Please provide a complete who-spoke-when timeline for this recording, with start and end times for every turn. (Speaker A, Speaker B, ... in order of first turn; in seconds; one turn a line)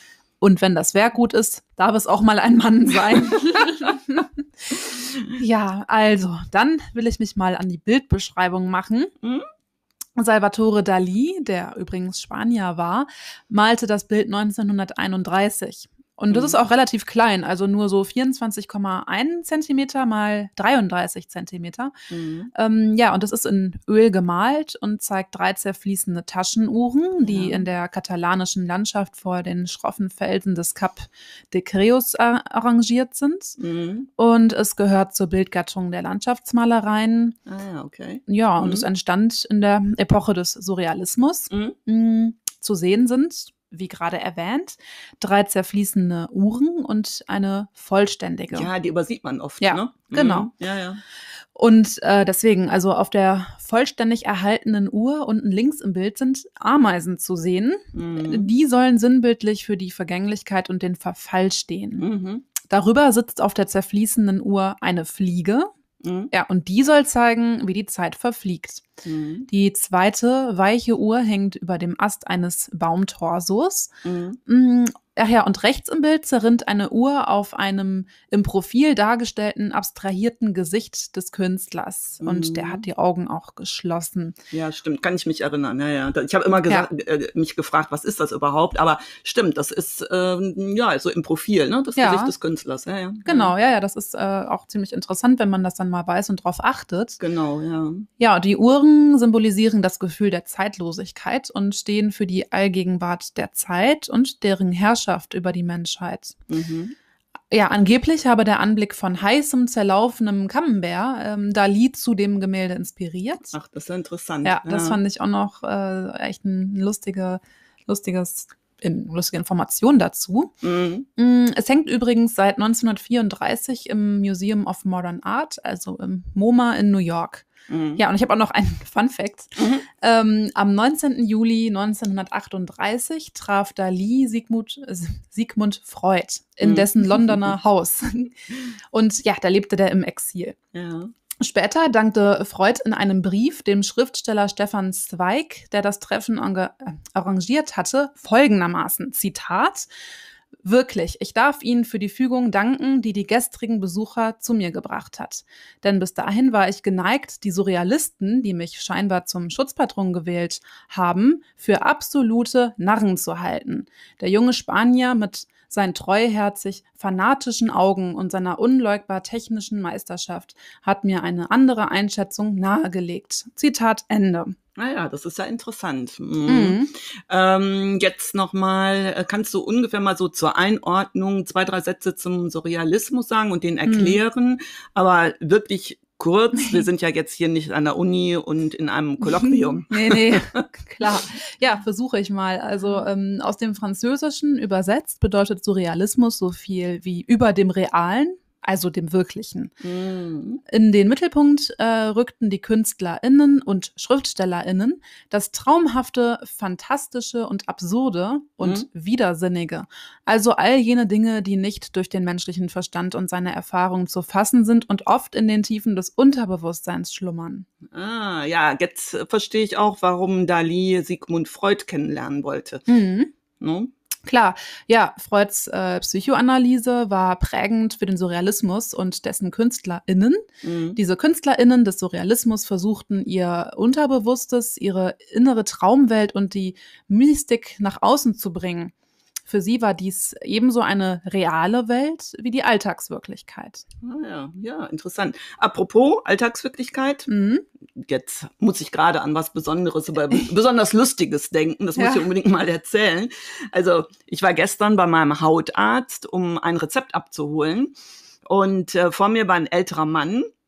Speaker A: 0.4-4.4
Speaker A: 5.3-9.1
Speaker A: 10.2-21.9
Speaker B: 16.3-16.6
Speaker B: 22.1-22.5
Speaker A: 22.5-33.6
Speaker B: 27.2-27.7
Speaker B: 33.6-34.1
Speaker A: 34.2-37.4
Speaker B: 37.5-38.9
Speaker A: 38.3-48.7
Speaker B: 41.5-41.8
Speaker B: 48.5-51.0
Speaker A: 49.6-50.5
Speaker A: 51.5-62.0
Speaker B: 57.9-58.5
Speaker B: 62.0-62.5
Speaker A: 62.6-65.7
Speaker B: 66.0-66.3
Speaker A: 66.3-68.8
Speaker B: 69.0-69.5
Speaker A: 69.5-73.9
Speaker B: 74.0-74.4
Speaker A: 74.5-84.3
Speaker B: 82.2-82.8
Speaker B: 84.5-93.5
Speaker A: 92.0-92.3
Speaker A: 93.2-97.2
Speaker B: 97.2-98.1
Speaker A: 98.2-106.4
Speaker B: 106.5-106.9
Speaker A: 107.5-113.5
Speaker B: 113.5-115.0
Speaker A: 114.4-120.5
Speaker B: 120.6-121.1
Speaker A: 121.2-140.6
Speaker B: 127.7-128.0
Speaker B: 129.6-129.8
Speaker B: 136.6-137.5
Speaker B: 140.7-141.1
Speaker A: 141.4-149.9
Speaker A: 150.6-174.5
Speaker B: 174.8-190.4
Speaker A: 176.5-176.9
Speaker A: 183.8-184.2
Speaker A: 186.6-186.8
Speaker A: 189.2-199.7
Speaker B: 199.8-200.6
Speaker A: 200.7-217.7
Speaker B: 217.9-222.8
Speaker A: 222.9-223.3
Speaker B: 223.6-223.9
Speaker A: 224.2-238.9
Speaker B: 230.6-231.0
Speaker A: 239.5-243.8
Speaker B: 244.0-247.3
Speaker A: 247.3-247.6
Speaker B: 247.9-257.9
Speaker A: 251.9-252.3
Speaker B: 258.4-260.5